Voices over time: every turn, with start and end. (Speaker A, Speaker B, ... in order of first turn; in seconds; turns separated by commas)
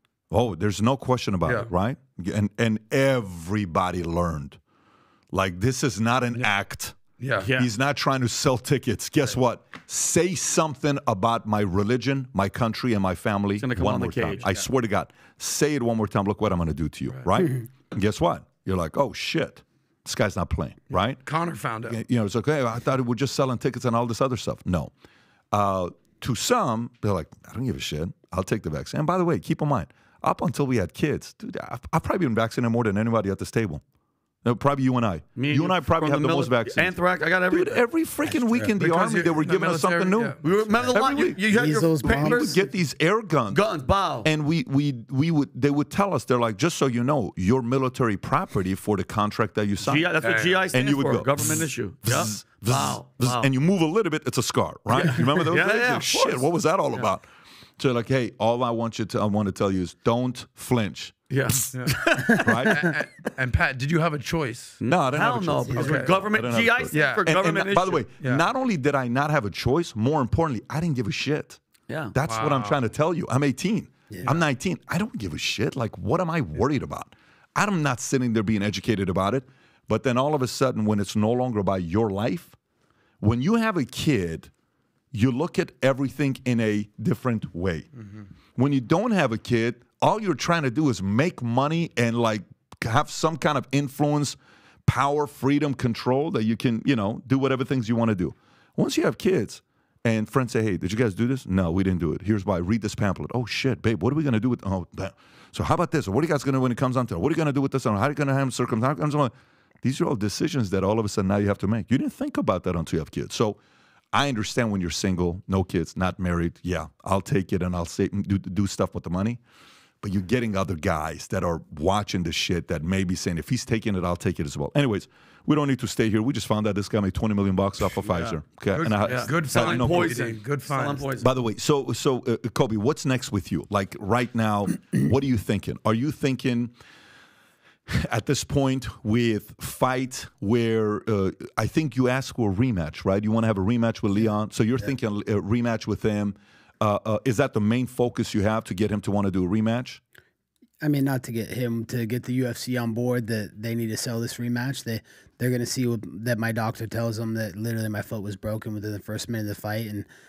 Speaker A: 0.3-4.6, Speaker A: 5.3-7.0, Speaker B: 7.2-7.5, Speaker C: 7.4-7.7, Speaker A: 7.5-21.2, Speaker C: 13.6-14.6, Speaker B: 20.9-22.0, Speaker A: 21.9-24.9, Speaker A: 25.5-33.8, Speaker A: 34.4-36.9, Speaker C: 35.4-37.8, Speaker A: 37.5-41.4, Speaker D: 38.2-38.7, Speaker B: 38.8-40.4, Speaker C: 40.4-42.6, Speaker D: 41.5-42.6, Speaker A: 42.0-43.6, Speaker C: 43.5-44.3, Speaker A: 44.2-50.1, Speaker C: 49.8-53.5, Speaker B: 50.2-50.6, Speaker A: 50.7-57.2, Speaker C: 54.9-57.1, Speaker A: 57.8-61.3, Speaker C: 61.3-62.5, Speaker B: 61.7-62.0, Speaker A: 62.4-62.9, Speaker B: 62.7-64.8, Speaker C: 64.8-68.0, Speaker A: 64.9-71.6, Speaker D: 65.7-66.0, Speaker B: 65.8-66.1, Speaker B: 66.9-67.2, Speaker C: 71.9-72.1, Speaker A: 72.1-82.5, Speaker B: 72.2-72.8, Speaker A: 83.2-84.5, Speaker A: 85.1-87.9, Speaker A: 88.5-113.6, Speaker A: 114.1-119.4, Speaker A: 120.0-130.2, Speaker C: 128.0-128.4, Speaker B: 128.7-131.1, Speaker C: 129.0-131.3, Speaker A: 131.2-136.7, Speaker A: 137.9-150.0, Speaker D: 150.8-160.1